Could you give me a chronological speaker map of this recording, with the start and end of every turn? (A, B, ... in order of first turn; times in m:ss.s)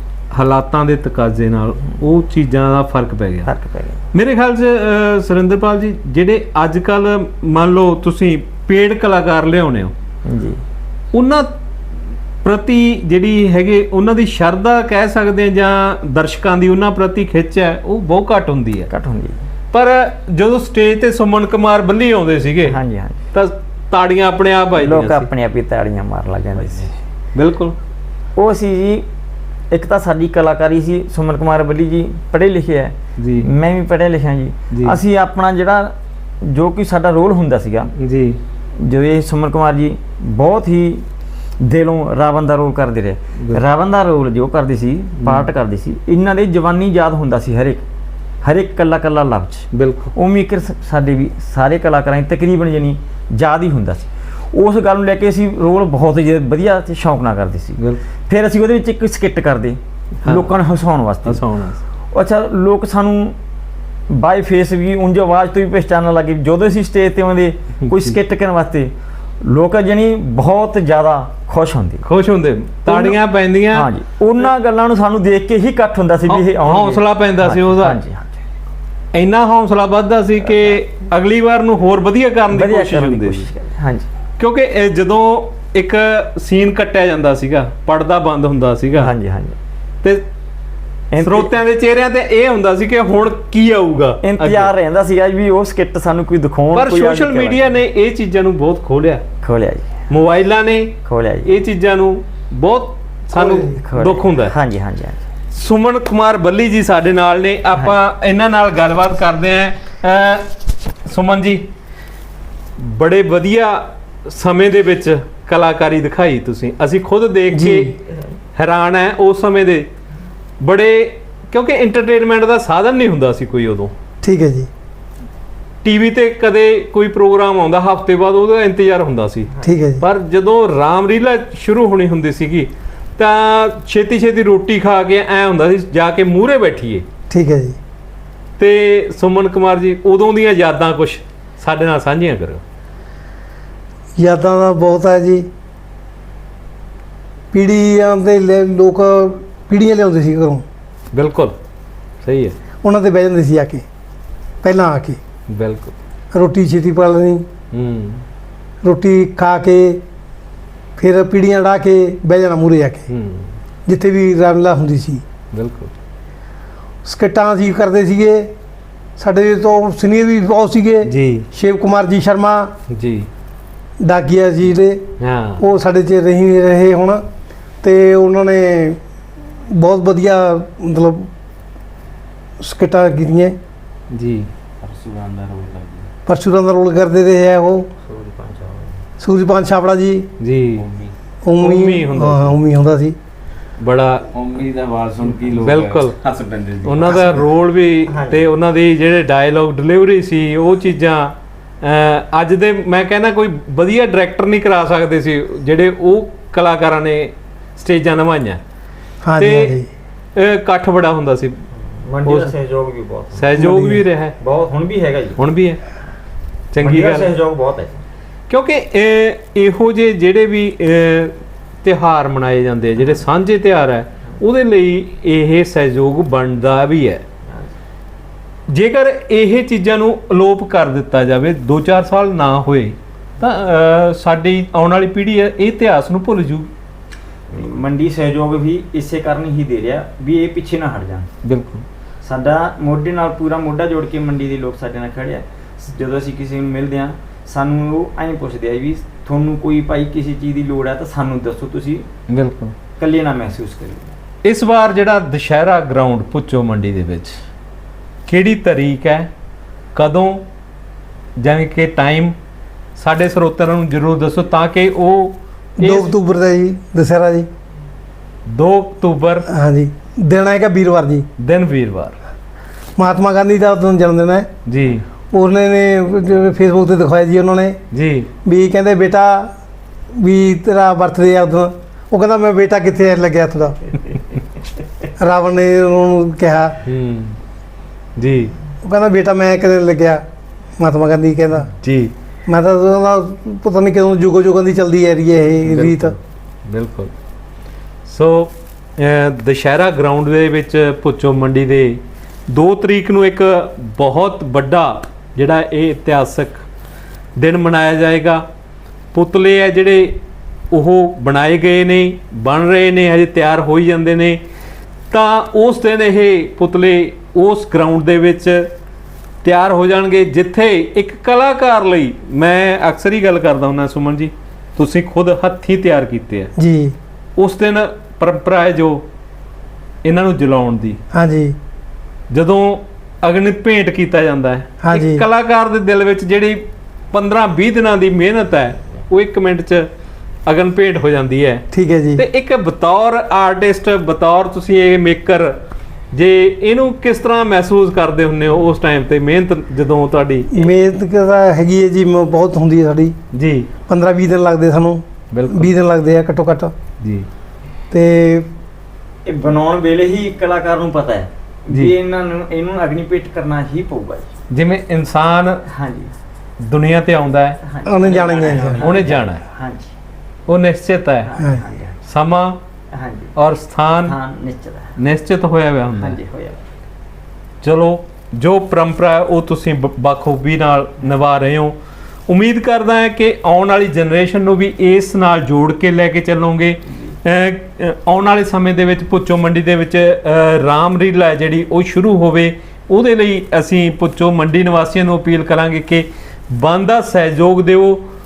0:00.3-0:03.5 A
0:03.4-0:04.0 B
0:04.1-0:09.9 A
0:10.3-0:10.6 B
0:11.1-0:11.5 A
0:12.4-0:18.9 A
0:18.9-0:19.4 B
0:19.7-0:22.8 A
0:22.6-0:23.2 B
0:23.3-0:25.3 A
0:24.7-0:26.9 B
0:27.3-0:27.7 A
0:28.4-0:29.0 B
0:29.7-0:35.9 B
0:33.2-0:33.5 A
0:34.7-0:35.0 A
0:36.4-0:37.9 B
0:38.0-0:38.4 A
0:38.8-0:41.0 B
0:41.6-0:47.8 B
0:45.2-0:45.5 A
0:48.4-1:01.4 B
0:49.7-0:50.1 A
1:00.2-1:00.5 A
1:01.2-1:01.8 A
1:02.1-1:03.4 B
1:04.1-1:08.9 B
1:07.8-1:08.2 A
1:09.4-1:12.0 B
1:12.0-1:13.9 A
1:12.8-1:18.4 B
1:16.3-1:18.0 A
1:19.1-1:23.5 A
1:22.5-1:24.1 B
1:24.4-1:29.1 A
1:29.0-1:29.6 B
1:31.1-1:31.6 B
1:31.2-1:34.7 A
1:34.2-1:37.8 B
1:36.7-1:39.2 A
1:39.4-1:39.9 B
1:40.1-1:44.5 A
1:41.0-1:41.5 B
1:43.3-1:43.7 C
1:43.8-1:45.2 B
1:45.5-1:50.5 A
1:51.0-1:51.7 A
1:52.8-1:57.9 A
1:57.5-1:57.9 C
1:58.5-1:59.9 A
2:00.6-2:03.9 A
2:04.2-2:04.7 C
2:05.8-2:17.0 A
2:09.6-2:10.0 C
2:17.3-2:17.8 C
2:18.6-2:22.6 A
2:24.2-2:25.5 C
2:27.5-2:30.6 C
2:31.1-2:31.5 A
2:32.2-2:32.6 A
2:32.8-2:33.8 C
2:34.6-2:35.2 C
2:35.5-2:35.9 A
2:36.3-2:37.4 C
2:37.7-2:38.2 A
2:38.8-2:40.0 C
2:41.0-2:43.1 C
2:43.1-2:43.5 A
2:43.9-2:45.2 C
2:45.5-2:45.9 A
2:47.0-2:48.5 C
2:49.2-2:52.7 C
2:51.0-2:51.5 A
2:52.9-2:53.3 A
2:54.0-2:55.0 C
2:55.2-2:55.6 A
2:55.6-2:57.2 C
2:57.8-2:59.0 C
2:59.7-3:01.3 C
3:02.6-3:03.6 C
3:04.1-3:04.5 A
3:04.8-3:06.1 D
3:06.3-3:07.9 C
3:08.0-3:09.0 D
3:09.2-3:10.3 C
3:10.4-3:10.9 A
3:10.8-3:11.1 D
3:11.4-3:13.2 C
3:11.6-3:12.6 A
3:13.8-3:14.2 A
3:14.3-3:17.3 D
3:15.6-3:16.2 A
3:16.8-3:28.6 A
3:17.0-3:17.5 B
3:18.1-3:18.5 B
3:29.2-3:29.9 C
3:29.4-3:29.8 A
3:30.4-3:31.6 A
3:32.0-3:33.8 B
3:32.2-3:32.5 A
3:33.4-3:34.4 A
3:33.6-3:34.0 C
3:34.4-3:35.4 B
3:35.4-3:35.8 A
3:36.7-3:37.3 A
3:36.8-3:38.0 B
3:38.5-3:47.2 A
3:48.7-3:56.7 A
3:57.5-4:01.3 B
4:01.4-4:01.8 A
4:02.2-4:12.0 B
4:12.3-4:12.7 A
4:13.0-4:14.1 B
4:14.4-4:17.4 A
4:18.3-4:19.3 A
4:19.9-4:20.4 A
4:21.4-4:22.3 A
4:23.0-4:26.1 A
4:25.8-4:27.5 C
4:28.4-4:29.5 A
4:29.5-4:31.2 C
4:31.4-4:32.2 A
4:33.0-4:34.5 C
4:34.6-4:35.0 A
4:35.3-4:37.8 C
4:37.9-4:38.3 A
4:38.4-4:39.5 C
4:40.1-4:43.8 C
4:45.2-4:46.8 C
4:46.8-4:47.4 A
4:48.2-4:48.5 A
4:48.8-4:50.2 C
4:50.8-4:51.7 C
4:51.8-4:52.1 A
4:52.5-4:56.1 C
4:55.5-4:57.1 A
4:58.0-5:06.6 A
5:07.4-5:08.4 A
5:09.1-5:10.2 A
5:10.7-5:14.4 A
5:15.1-5:18.7 A
5:19.4-5:26.5 A
5:26.6-5:26.9 C
5:27.4-5:29.0 A
5:30.0-5:31.0 A
5:31.1-5:31.6 C
5:32.3-5:39.9 A
5:34.8-5:35.2 C
5:40.4-5:41.6 A
5:41.7-5:42.2 C
5:42.2-5:45.6 A
5:46.1-5:50.5 A
5:50.5-5:53.2 C
5:53.3-5:53.7 A
5:53.9-5:56.7 C
5:55.3-5:55.7 A
5:57.0-5:57.3 A
5:57.9-5:58.5 C
5:59.2-6:04.2 B
6:04.5-6:05.6 A
6:05.7-6:06.1 B
6:06.6-6:07.6 A
6:07.6-6:09.9 B
6:07.8-6:08.9 C
6:08.7-6:09.4 A
6:10.5-6:11.3 A
6:11.2-6:12.0 B
6:12.0-6:12.6 A
6:12.9-6:13.3 B
6:13.4-6:14.1 A
6:14.0-6:14.9 B
6:15.0-6:16.2 A
6:15.9-6:16.6 B
6:17.6-6:21.8 A
6:22.3-6:38.0 A